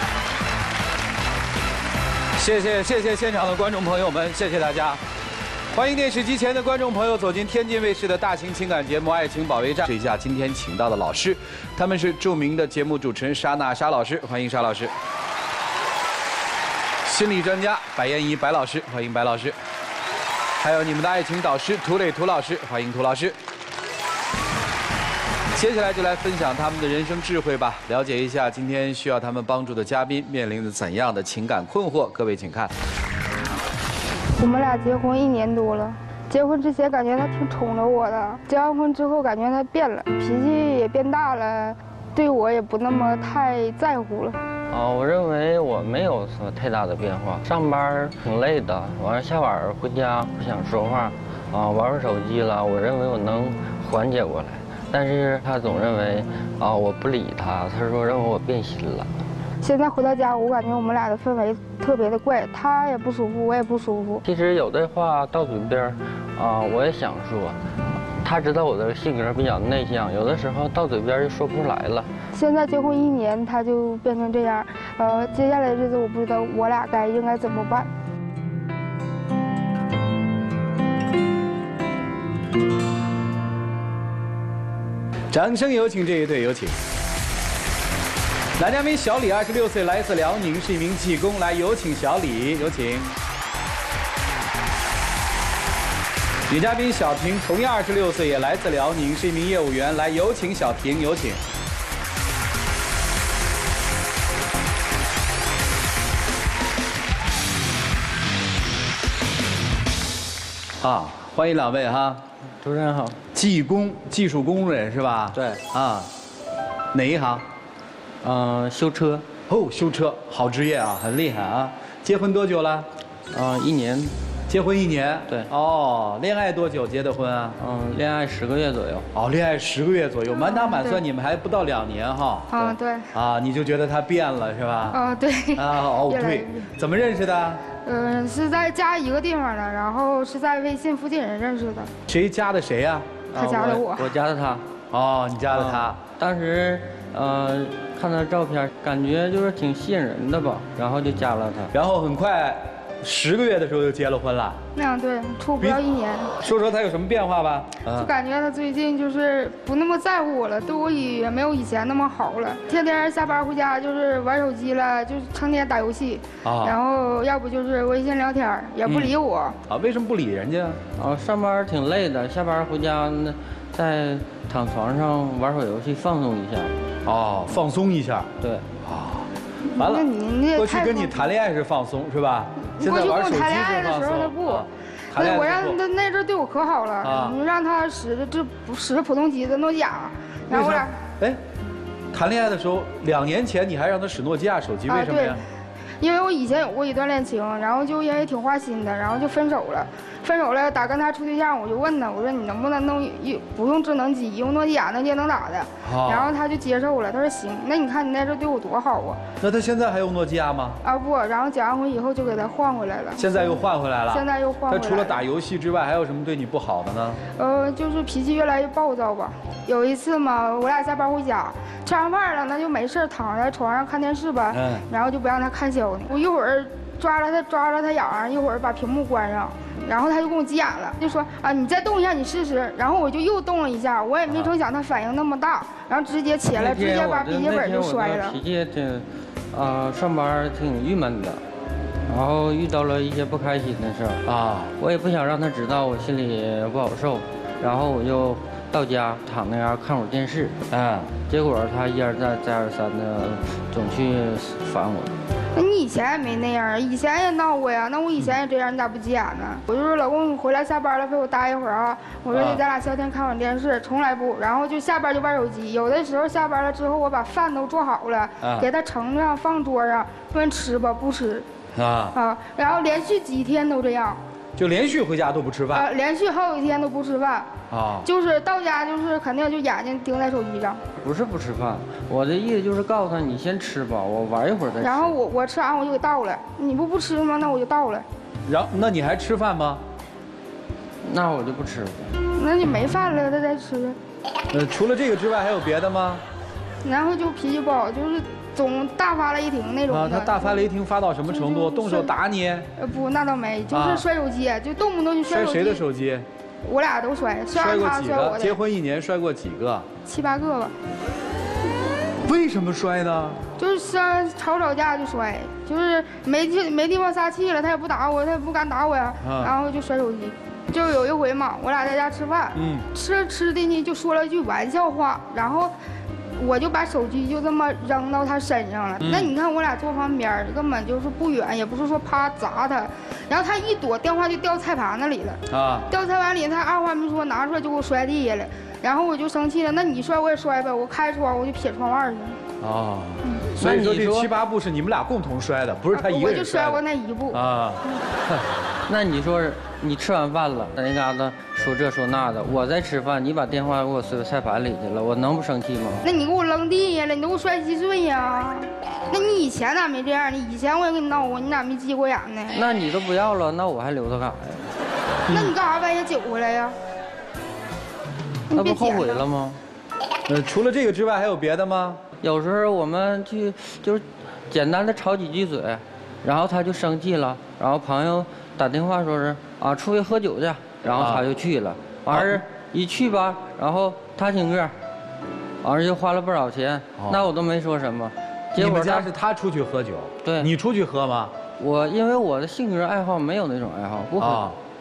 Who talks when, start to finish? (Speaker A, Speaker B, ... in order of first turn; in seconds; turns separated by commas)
Speaker A: 2.4-5.0, Speaker A: 5.7-14.9, Speaker A: 17.0-19.6, Speaker A: 20.6-23.4, Speaker A: 25.5-32.7, Speaker B: 34.4-44.4, Speaker C: 44.7-59.1, Speaker B: 59.6-64.2, Speaker C: 64.2-67.6, Speaker C: 68.2-72.1, Speaker B: 72.3-77.9, Speaker A: 85.3-86.8, Speaker A: 88.6-93.1, Speaker A: 96.5-101.4, Speaker A: 110.8-112.2, Speaker C: 112.6-113.2, Speaker A: 113.3-116.1, Speaker C: 115.3-115.6, Speaker A: 116.9-117.4, Speaker C: 118.2-119.3, Speaker A: 119.5-122.9, Speaker C: 123.3-124.1, Speaker A: 124.5-127.6, Speaker C: 127.6-129.1, Speaker A: 129.2-132.5, Speaker B: 130.3-131.0, Speaker B: 132.5-133.1, Speaker A: 133.1-135.0, Speaker B: 134.9-136.7, Speaker A: 135.6-137.6, Speaker B: 137.8-141.9, Speaker A: 142.1-143.8, Speaker B: 143.3-144.1, Speaker C: 143.6-144.6, Speaker A: 144.9-146.0, Speaker C: 145.5-151.7, Speaker A: 151.7-154.6, Speaker B: 154.8-156.3, Speaker A: 156.4-158.1, Speaker B: 157.9-169.6, Speaker A: 166.4-166.8, Speaker A: 168.8-169.1, Speaker A: 169.7-170.8, Speaker C: 171.0-176.7, Speaker A: 177.1-178.3, Speaker A: 178.8-185.8, Speaker B: 179.8-181.2, Speaker B: 182.8-190.9, Speaker A: 187.0-187.4, Speaker A: 190.5-191.4, Speaker A: 192.1-195.4, Speaker B: 194.9-195.4, Speaker B: 196.0-209.2, Speaker A: 205.8-206.3, Speaker A: 209.4-210.8, Speaker B: 210.8-215.2, Speaker A: 213.2-217.2, Speaker B: 217.4-238.4, Speaker A: 224.5-224.8, Speaker C: 236.5-241.4, Speaker C: 242.1-244.2, Speaker A: 244.3-244.7, Speaker C: 244.8-250.6, Speaker A: 250.7-251.1, Speaker C: 251.3-255.1, Speaker B: 255.6-271.5, Speaker A: 262.3-262.6, Speaker A: 268.4-268.7, Speaker A: 271.7-272.1, Speaker B: 272.1-274.2, Speaker A: 274.6-275.9, Speaker B: 275.7-280.8, Speaker A: 277.7-278.1, Speaker C: 281.0-285.1, Speaker B: 284.8-288.1, Speaker A: 288.5-289.8, Speaker C: 291.1-292.1, Speaker B: 292.4-294.0, Speaker A: 294.5-296.2, Speaker B: 296.8-300.7, Speaker A: 299.9-302.7, Speaker B: 301.3-302.1, Speaker B: 302.8-305.8, Speaker A: 303.7-304.1, Speaker A: 305.3-306.3, Speaker B: 306.6-308.6, Speaker A: 307.5-309.9, Speaker B: 310.1-310.7, Speaker A: 312.2-313.4, Speaker B: 313.6-325.7, Speaker A: 319.2-319.5, Speaker A: 322.6-322.9, Speaker B: 326.4-342.4, Speaker A: 329.0-329.3, Speaker A: 335.5-335.9, Speaker A: 342.6-346.8, Speaker C: 343.6-344.3, Speaker B: 345.9-347.4, Speaker A: 347.3-348.4, Speaker C: 348.9-356.1, Speaker B: 356.0-362.6, Speaker C: 362.5-364.6, Speaker A: 365.3-365.5, Speaker B: 365.3-366.8, Speaker B: 368.5-369.2, Speaker C: 368.5-369.6, Speaker A: 370.3-372.0, Speaker C: 372.2-384.7, Speaker A: 381.0-381.2, Speaker A: 382.1-382.4, Speaker C: 385.6-389.1, Speaker A: 388.6-391.3, Speaker C: 390.2-390.5, Speaker C: 391.6-394.5, Speaker A: 394.2-394.6